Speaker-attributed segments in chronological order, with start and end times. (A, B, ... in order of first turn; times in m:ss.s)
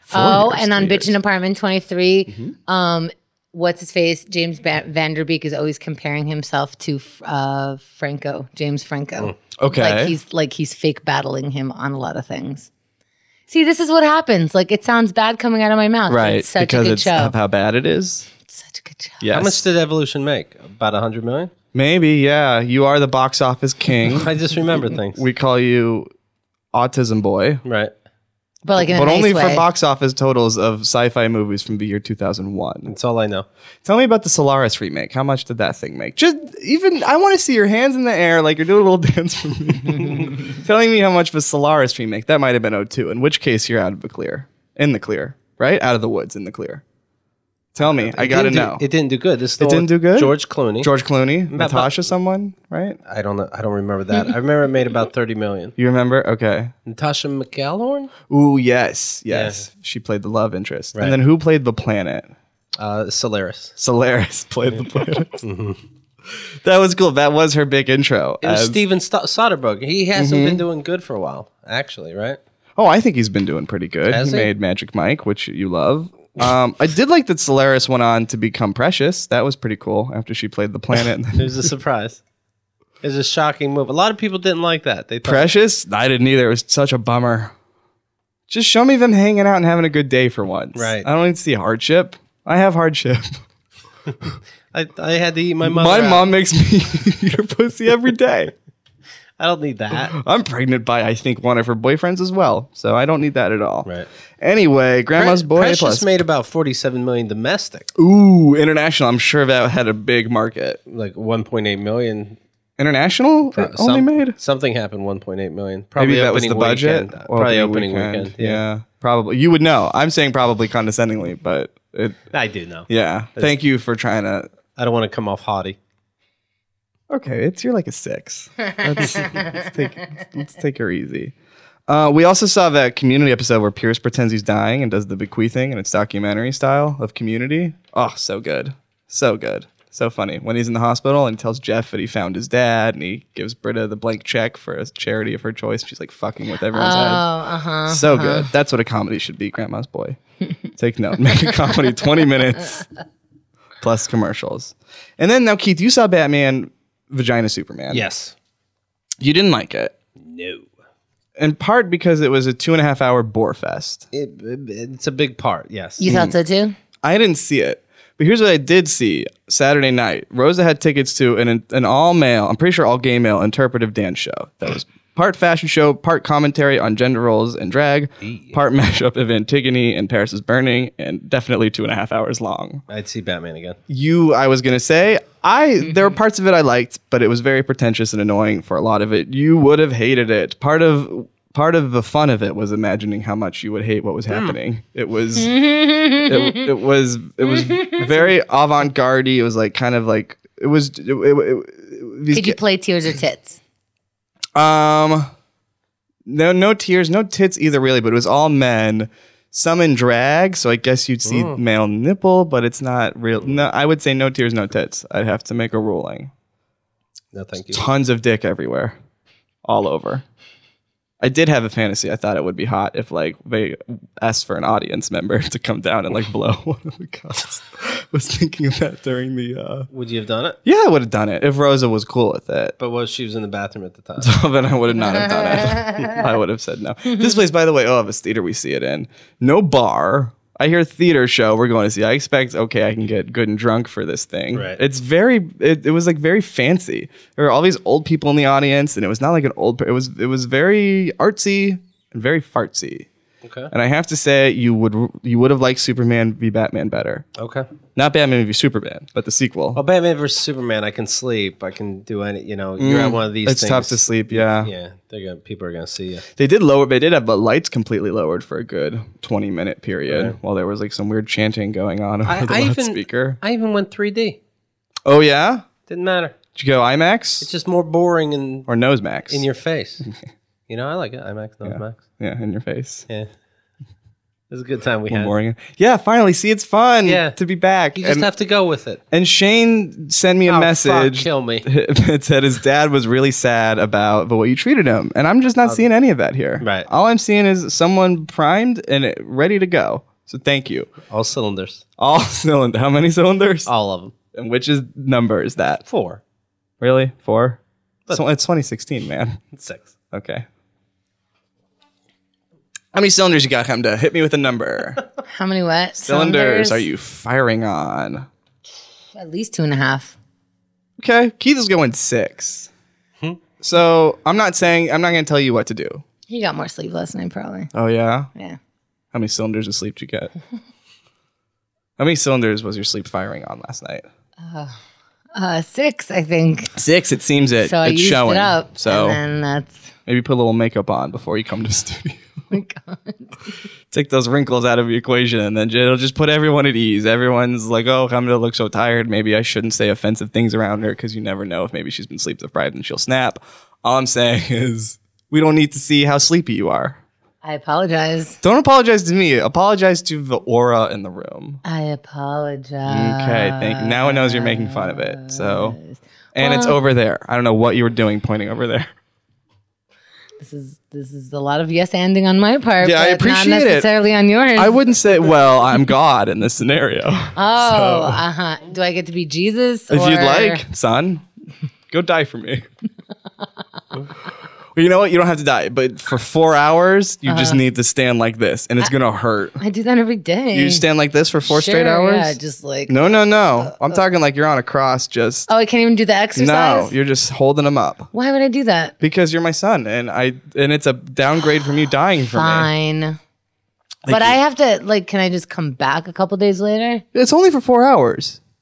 0:00.1-0:01.1 A
0:00.1-0:12.7 B
0:09.6-0:10.2 A
0:13.5-0:17.3 B
0:16.1-0:18.3 A
0:18.5-0:19.2 B
0:19.2-0:19.6 A
0:19.3-0:21.5 C
0:21.7-0:26.1 A
0:24.1-0:25.2 C
0:26.7-0:27.6 A
0:27.6-0:27.9 C
0:28.6-0:29.6 B
0:28.8-0:32.9 A
0:32.9-0:33.4 C
0:33.8-0:46.8 A
0:47.7-0:48.8 A
0:47.8-0:50.9 C
0:49.6-0:53.0 A
0:51.5-0:51.9 C
0:53.1-0:55.8 C
0:55.8-0:56.7 A
0:56.9-0:58.1 C
0:58.3-1:02.3 A
0:59.3-0:59.7 C
1:02.8-1:03.7 C
1:03.8-1:05.4 A
1:05.4-1:05.8 C
1:06.3-1:08.8 A
1:08.4-1:12.4 C
1:10.1-1:10.6 A
1:12.8-1:21.7 A
1:14.1-1:14.5 C
1:21.3-1:22.2 C
1:23.0-1:25.5 C
1:25.2-1:27.5 A
1:28.5-1:33.4 A
1:30.7-1:31.1 C
1:34.7-1:36.3 C
1:35.6-1:38.5 A
1:39.4-1:40.2 C
1:39.9-1:43.9 A
1:44.4-1:46.2 A
1:45.2-1:47.9 C
1:48.0-1:50.8 A
1:50.9-1:52.4 C
1:52.8-1:54.4 A
1:53.5-1:58.6 C
1:56.0-2:02.2 A
2:02.3-2:03.6 C
2:02.9-2:04.5 A
2:04.8-2:05.8 C
2:07.1-2:11.3 A
2:11.9-2:27.3 A
2:26.7-2:28.5 B
2:27.9-2:30.2 A
2:30.8-2:32.8 A
2:33.8-2:38.1 A
2:37.9-2:38.3 C
2:39.2-2:39.9 A
2:40.2-2:40.7 C
2:41.4-2:44.1 A
2:44.1-2:46.1 C
2:46.0-2:46.8 B
2:46.1-2:46.4 A
2:47.0-3:02.8 A
2:58.2-2:58.6 C
3:02.9-3:03.8 C
3:03.9-3:22.6 A
3:14.3-3:14.6 C
3:15.4-3:16.7 B
3:17.4-3:18.0 B
3:22.3-3:23.6 B
3:24.6-3:25.3 A
3:26.2-3:36.3 A
3:31.2-3:31.6 C
3:37.3-3:37.8 C
3:37.7-3:39.0 A
3:39.6-3:40.2 A
3:41.2-3:49.9 A
3:49.9-3:50.6 C
3:50.6-3:52.7 A
3:52.8-3:54.3 C
3:54.2-4:13.1 A
3:55.8-3:56.1 B
4:04.5-4:04.8 C
4:13.4-4:13.7 C
4:13.7-4:17.2 A
4:17.4-4:17.6 C
4:18.0-4:19.8 A
4:19.7-4:26.2 C
4:22.8-4:24.7 A
4:26.4-4:33.4 A
4:30.1-4:30.4 C
4:32.2-4:34.4 C
4:35.0-4:35.7 A
4:35.9-4:36.4 C
4:36.6-4:37.5 A
4:37.4-4:38.7 C
4:38.7-4:39.4 A
4:39.3-4:40.0 C
4:40.7-4:42.0 C
4:41.6-4:43.1 A
4:44.5-4:45.3 C
4:45.1-4:48.3 A
4:47.0-4:47.4 C
4:47.9-4:49.0 C
4:49.1-5:00.9 A
4:50.5-4:51.6 C
4:56.6-4:56.9 C
5:01.1-5:01.8 C
5:02.0-5:03.7 A
5:03.7-5:04.1 C
5:04.3-5:05.8 A
5:05.9-5:06.2 C
5:06.8-5:07.6 A
5:08.1-5:09.4 A
5:09.5-5:09.9 C
5:10.1-5:10.4 A
5:12.9-5:15.0 A
5:15.3-5:16.9 B
5:16.0-5:18.3 A
5:19.1-5:20.2 B
5:21.0-5:22.7 A
5:23.6-5:26.0 A
5:26.3-5:27.7 B
5:27.7-5:28.3 A
5:29.1-5:30.3 A
5:32.0-5:34.1 A
5:34.4-5:34.8 B
5:35.4-5:36.7 B
5:36.7-5:39.2 A
5:37.6-5:39.8 B
5:40.1-5:42.2 A
5:42.5-5:43.3 B
5:43.9-5:57.0 A
5:57.4-5:58.4 B
5:58.4-6:01.6 A
6:01.6-6:06.8 B
6:02.9-6:05.8 A
6:06.4-6:08.9 A
6:10.4-6:14.8 B
6:12.8-6:13.9 A
6:14.6-6:18.2 A
6:17.3-6:20.6 B
6:19.9-6:21.2 A
6:21.9-6:22.6 A
6:24.7-6:29.6 A
6:27.2-6:27.6 B
6:29.6-6:30.8 B
6:30.5-6:32.4 A
6:31.5-6:33.9 B
6:32.9-6:35.5 A
6:35.5-6:36.9 B
6:36.4-6:38.1 A
6:38.1-6:38.9 B
6:39.0-6:42.7 A
6:42.3-6:43.2 B
6:44.1-6:44.4 A
6:44.1-6:47.0 B
6:47.1-6:48.4 A